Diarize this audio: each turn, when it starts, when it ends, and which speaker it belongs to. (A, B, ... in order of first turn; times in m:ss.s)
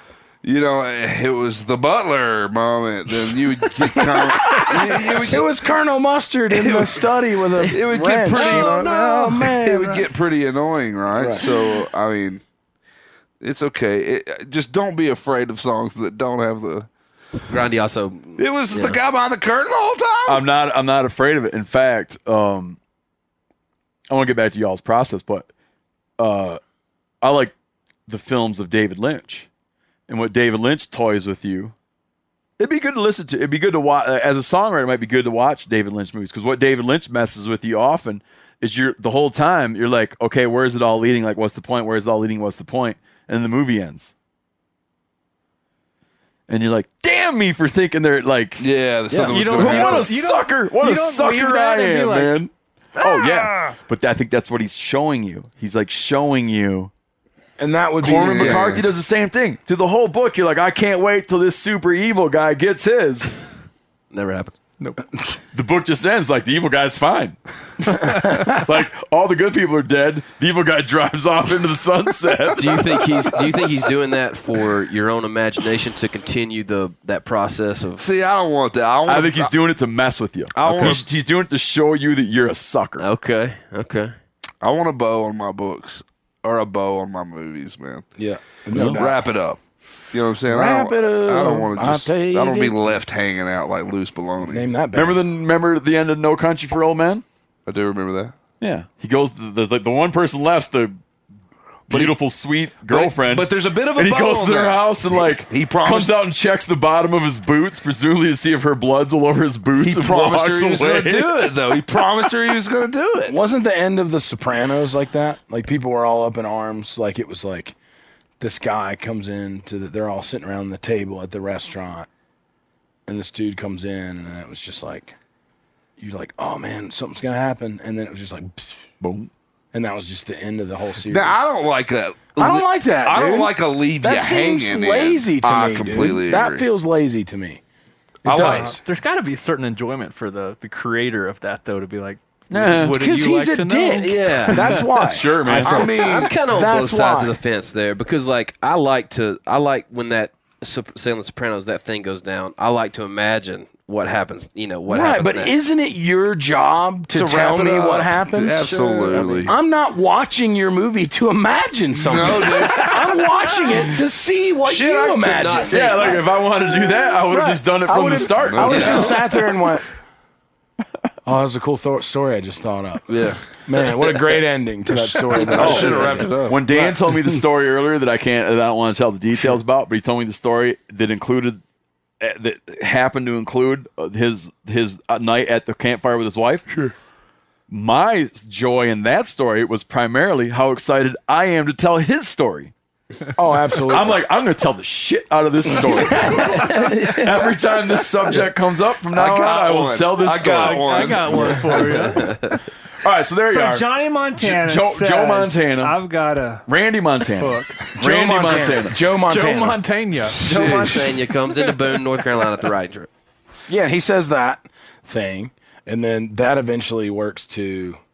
0:00.4-0:05.4 A
0:03.7-0:10.1 B
0:06.5-0:07.1 A
0:07.6-0:12.4 A
0:08.4-0:08.7 C
0:11.1-0:11.8 B
0:13.4-0:16.9 A
0:17.5-0:19.0 C
0:18.4-0:20.4 A
0:20.3-0:22.8 D
0:24.1-0:25.5 D
0:26.2-0:26.6 D
0:27.2-0:27.5 D
0:28.1-0:29.5 D
0:30.1-0:31.7 D
0:32.6-0:44.1 D
0:46.5-0:48.7 D
0:48.6-0:50.1 A
0:49.3-0:50.2 E
0:49.3-0:52.3 F
0:49.3-0:56.9 D
0:57.6-0:58.8 B
0:58.0-1:03.4 D
0:58.2-0:58.8 A
1:04.1-1:04.5 C
1:05.5-1:13.0 D
1:12.6-1:18.1 C
1:18.0-1:19.5 A
1:19.1-1:23.1 D
1:20.5-1:21.1 A
1:23.0-1:24.1 C
1:24.6-1:28.1 A
1:28.2-1:29.2 B
1:28.7-1:29.0 D
1:28.7-1:29.6 A
1:30.1-1:34.7 A
1:30.5-1:33.0 B
1:34.4-1:35.2 B
1:34.9-1:37.2 D
1:37.7-1:38.4 A
1:38.6-1:41.0 D
1:41.9-1:51.6 D
1:41.9-1:42.2 A
1:42.9-1:46.2 A
1:49.8-1:53.4 A
1:53.3-1:57.8 B
1:58.4-2:02.1 B
2:03.1-2:05.2 B
2:06.0-2:08.8 B
2:09.0-2:09.3 D
2:09.7-2:11.5 B
2:11.1-2:16.7 A
2:12.4-2:17.6 B
2:18.2-2:18.8 A
2:18.2-2:18.8 B
2:18.4-2:24.9 E
2:22.5-2:23.0 D
2:22.9-2:27.4 B
2:24.0-2:24.8 C
2:24.9-2:25.9 D
2:25.5-2:26.4 A
2:25.6-2:35.5 C
2:34.9-2:38.8 B
2:37.1-2:39.5 A
2:38.6-2:39.5 E
2:39.1-2:39.5 C
2:39.5-2:46.2 B
2:41.9-2:43.2 A
2:44.7-2:45.7 A
2:45.1-2:46.3 C
2:45.7-2:49.2 D
2:47.2-2:49.9 B
2:48.4-2:49.2 A
2:51.2-2:57.4 B
2:53.1-2:53.4 A
2:55.2-2:56.6 A
2:55.5-3:01.6 D
3:02.2-3:06.7 D
3:07.7-3:12.7 D
3:13.4-3:14.2 B
3:13.9-3:21.6 D
3:16.1-3:16.6 B
3:16.3-3:17.2 E
3:19.1-3:21.9 A
3:20.5-3:22.5 E
3:21.3-3:22.1 F
3:22.1-3:22.5 C
3:23.0-3:26.0 D
3:23.4-3:26.6 F
3:26.7-3:29.0 D
3:27.4-3:27.8 E
3:28.0-3:29.8 B
3:29.2-3:31.1 E
3:30.4-3:33.1 C
3:30.4-3:31.0 A
3:33.7-3:38.0 B